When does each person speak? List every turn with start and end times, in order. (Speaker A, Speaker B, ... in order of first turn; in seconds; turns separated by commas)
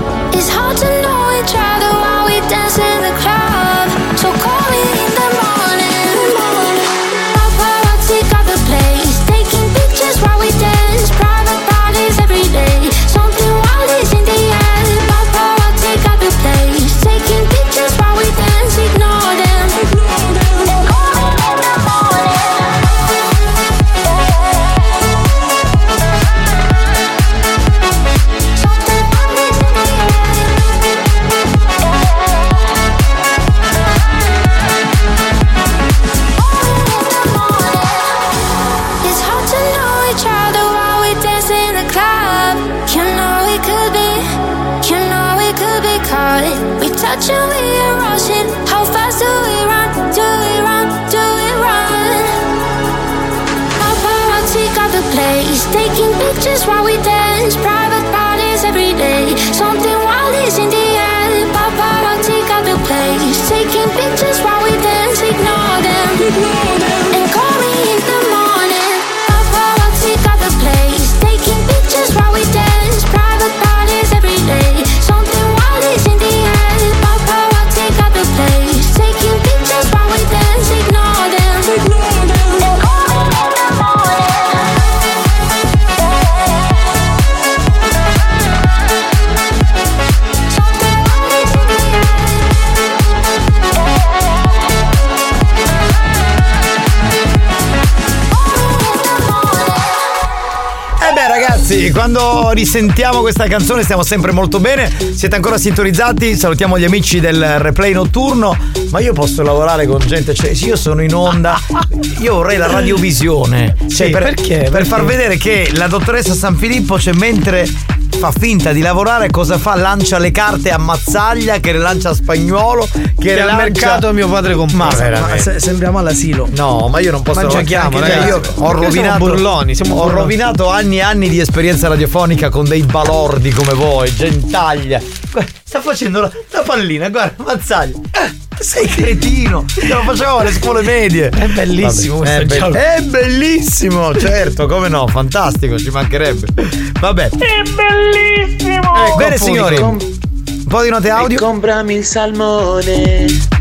Speaker A: 0.3-22.4, Speaker A: 28.6-30.2, Speaker A: 36.9-38.1, Speaker A: 39.0-52.3, Speaker A: 53.8-66.4, Speaker A: 67.0-84.0, Speaker A: 90.8-91.7, Speaker B: 101.0-124.1, Speaker C: 113.9-115.2, Speaker C: 123.3-125.5, Speaker B: 124.7-125.4, Speaker D: 125.0-126.5, Speaker B: 126.5-138.0, Speaker C: 127.3-130.4, Speaker D: 127.6-128.4, Speaker B: 138.6-147.4, Speaker C: 141.4-142.8, Speaker C: 148.9-150.0, Speaker B: 149.1-150.0, Speaker B: 150.7-151.4